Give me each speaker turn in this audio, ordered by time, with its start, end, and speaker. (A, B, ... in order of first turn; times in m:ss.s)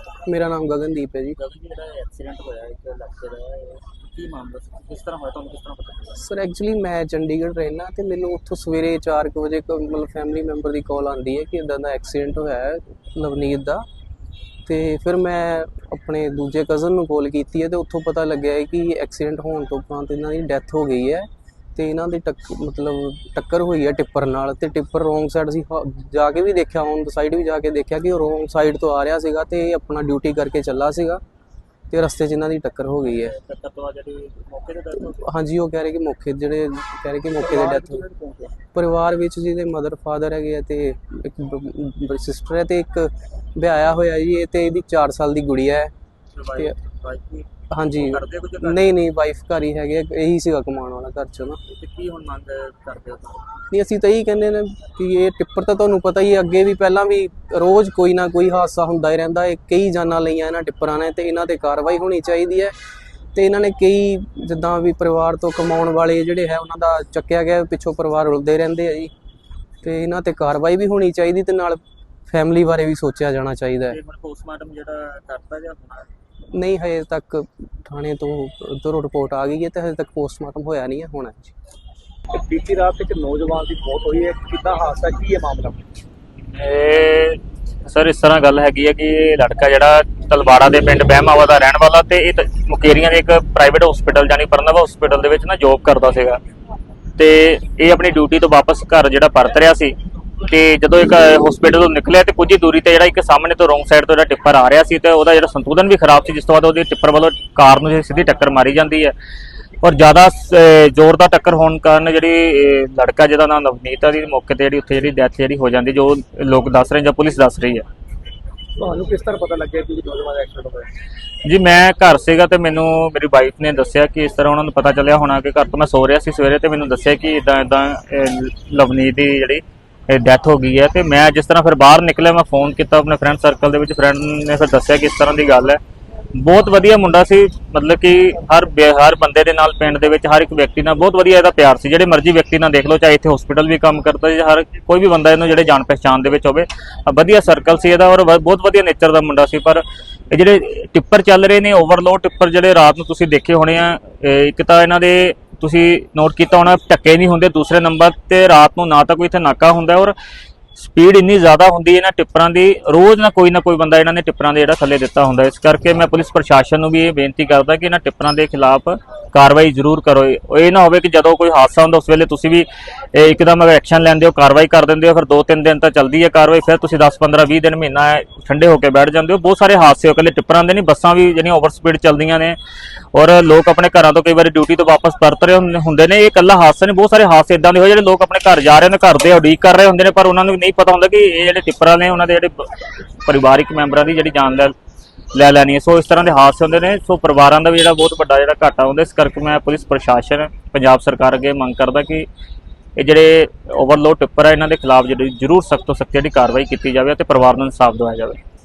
0:00.2-0:01.4 A
0:01.4-0:06.2 B
0:06.2-0:13.8 A
0:14.6-0:31.2 A
0:31.9-0:33.4 A
0:33.1-0:35.2 B
0:35.0-0:38.0 A
0:37.4-0:38.5 B
0:38.7-0:45.9 A
0:46.4-0:48.9 B
0:47.7-0:51.6 A
0:51.7-0:53.4 B
0:53.7-1:02.7 A
1:03.3-1:09.1 A
1:09.8-1:14.0 A
1:14.0-1:15.8 C
1:15.4-1:16.1 B
1:16.5-1:21.5 A
1:22.3-1:25.9 D
1:26.6-1:36.4 C
1:37.2-1:49.1 C
1:49.8-1:57.8 C
1:58.8-2:00.9 D
2:01.4-2:15.8 C
2:16.3-2:40.1 C
2:40.8-3:02.6 C
3:03.1-3:14.8 C
3:15.3-3:22.3 C
3:23.0-3:28.4 C